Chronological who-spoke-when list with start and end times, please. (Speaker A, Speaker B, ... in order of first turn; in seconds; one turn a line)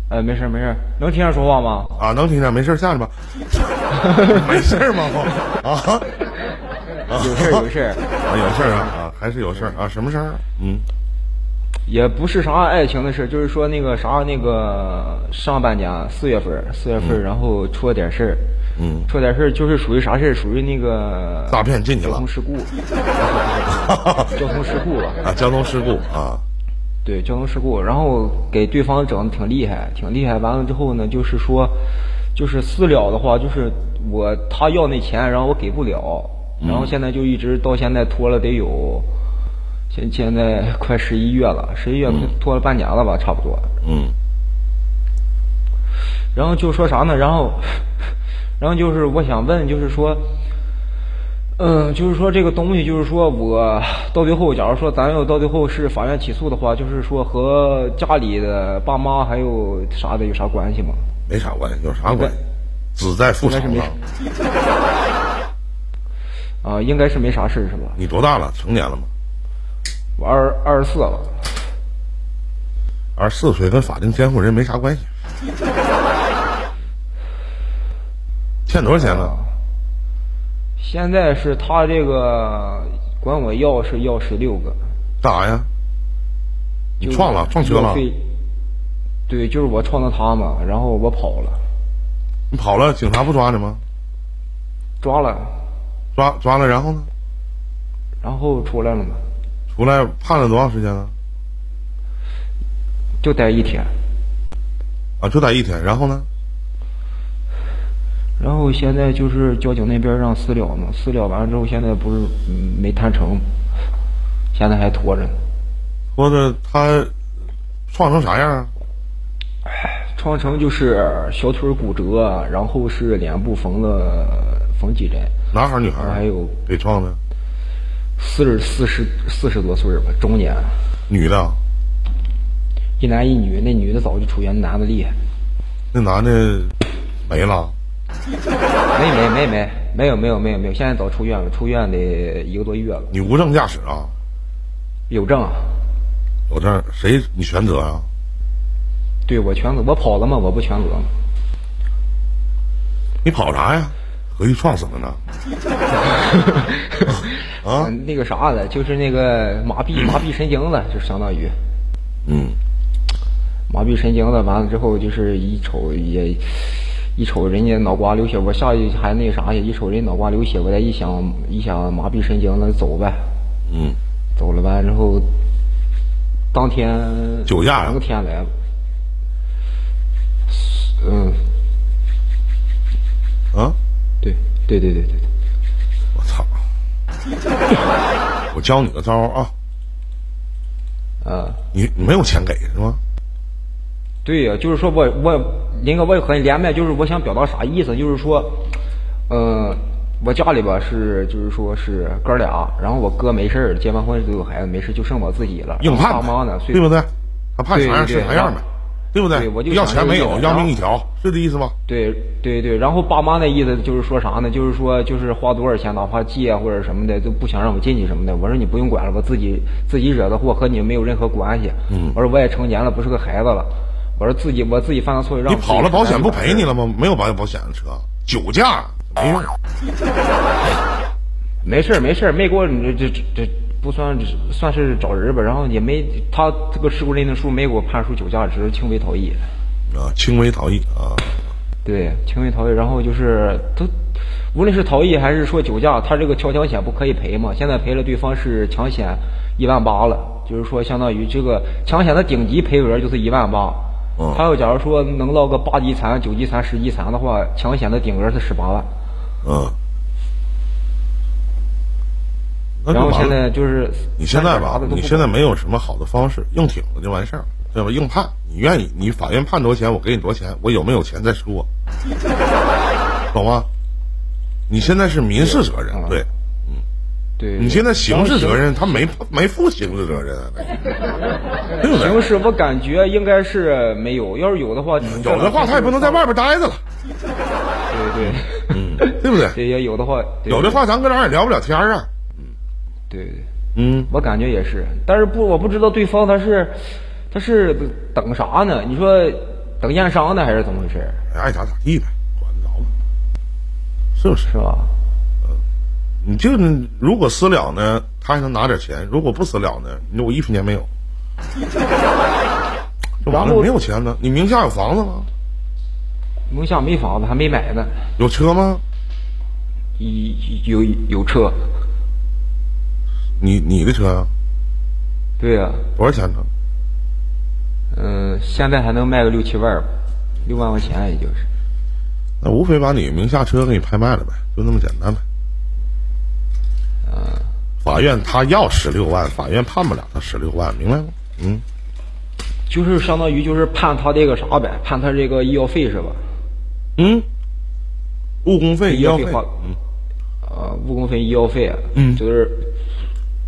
Speaker A: 0.1-2.0
Speaker B: 2.0-6.1
Speaker A: 4.0-5.5
Speaker B: 7.1-7.6
Speaker A: 7.1-8.9
Speaker B: 8.3-10.9
Speaker A: 11.9-18.5
Speaker B: 18.8-19.1
Speaker A: 19.1-25.2
Speaker B: 21.5-22.2
Speaker B: 23.7-24.3
Speaker B: 25.2-26.4
Speaker A: 27.1-31.8
Speaker A: 32.4-39.1
Speaker B: 36.6-37.0
Speaker A: 39.9-43.7
Speaker B: 42.1-42.3
Speaker B: 43.8-44.2
Speaker A: 46.3-50.4
Speaker A: 51.6-61.0
Speaker B: 61.3-62.4
Speaker A: 62.1-62.4
Speaker B: 63.0-64.0
Speaker A: 63.4-64.0
Speaker A: 66.6-68.0
Speaker B: 68.0-69.1
Speaker A: 70.2-71.5
Speaker B: 73.2-75.1
Speaker B: 78.7-79.3
Speaker A: 78.9-79.5
Speaker A: 80.8-84.8
Speaker B: 85.2-85.7
Speaker A: 87.0-88.3
Speaker B: 87.0-88.1
Speaker A: 89.3-91.6
Speaker B: 92.5-93.8
Speaker A: 95.0-95.6
Speaker B: 96.2-97.1
Speaker A: 98.2-99.2
Speaker B: 99.7-101.1
Speaker A: 103.2-103.9
Speaker B: 105.2-106.3
Speaker A: 108.4-113.5
Speaker A: 114.5-115.4
Speaker B: 116.2-117.1
Speaker B: 117.9-118.7
Speaker A: 119.7-125.3
Speaker B: 125.5-127.2
Speaker A: 126.0-126.6
Speaker A: 128.2-130.7
Speaker B: 131.1-131.6
Speaker A: 133.0-135.2
Speaker B: 135.9-136.8
Speaker B: 137.3-137.8
Speaker A: 138.9-143.1
Speaker B: 143.1-144.1
Speaker A: 145.1-145.8
Speaker B: 146.5-148.1
Speaker A: 149.3-151.1
Speaker B: 153.2-155.2
Speaker A: 156.0-161.6
Speaker B: 157.2-157.9
Speaker B: 162.2-162.6
Speaker A: 163.7-173.3
Speaker B: 173.7-174.0
Speaker A: 174.4-175.3
Speaker A: 176.5-178.5
Speaker B: 177.5-178.0
Speaker A: 180.5-181.4
Speaker A: 184.2-185.3
Speaker B: 186.2-186.5
Speaker B: 188.5-189.5
Speaker A: 191.2-191.6
Speaker B: 191.7-193.0
Speaker A: 194.2-198.7
Speaker A: 199.3-206.8
Speaker B: 205.8-211.8
Speaker A: 207.7-208.6
Speaker A: 209.3-210.8
Speaker A: 211.9-226.8
Speaker B: 221.9-222.2
Speaker B: 225.5-229.5
Speaker A: 231.6-239.4
Speaker B: 239.9-241.4
Speaker A: 241.8-243.9
Speaker A: 244.5-258.9
Speaker B: 254.2-254.4
Speaker B: 259.4-259.8
Speaker B: 262.8-263.4
Speaker A: 262.9-265.4
Speaker B: 264.2-271.7
Speaker B: 273.3-273.7
Speaker B: 274.7-276.8
Speaker A: 275.4-276.2
Speaker A: 277.4-279.0
Speaker B: 277.6-280.9
Speaker B: 281.8-282.3
Speaker A: 281.9-286.2
Speaker B: 285.0-286.8
Speaker A: 287.9-290.8
Speaker B: 288.2-289.6
Speaker B: 290.5-292.1
Speaker A: 293.1-293.5
Speaker B: 293.8-294.1
Speaker A: 294.1-301.2
Speaker B: 301.3-302.9
Speaker B: 304.2-304.5
Speaker A: 304.5-304.9
Speaker B: 306.2-310.9
Speaker B: 313.2-315.3
Speaker A: 313.2-313.7
Speaker A: 316.5-318.1
Speaker B: 318.2-318.8
Speaker A: 320.0-321.7
Speaker B: 323.4-324.3
Speaker A: 325.4-325.9
Speaker B: 326.0-326.5
Speaker A: 327.9-329.9
Speaker A: 330.4-331.5
Speaker B: 332.4-335.2
Speaker A: 337.1-337.5
Speaker B: 337.8-341.6
Speaker A: 342.7-346.3
Speaker B: 347.0-347.3
Speaker B: 348.4-349.8
Speaker A: 348.9-349.5
Speaker A: 350.4-352.7
Speaker B: 351.9-352.2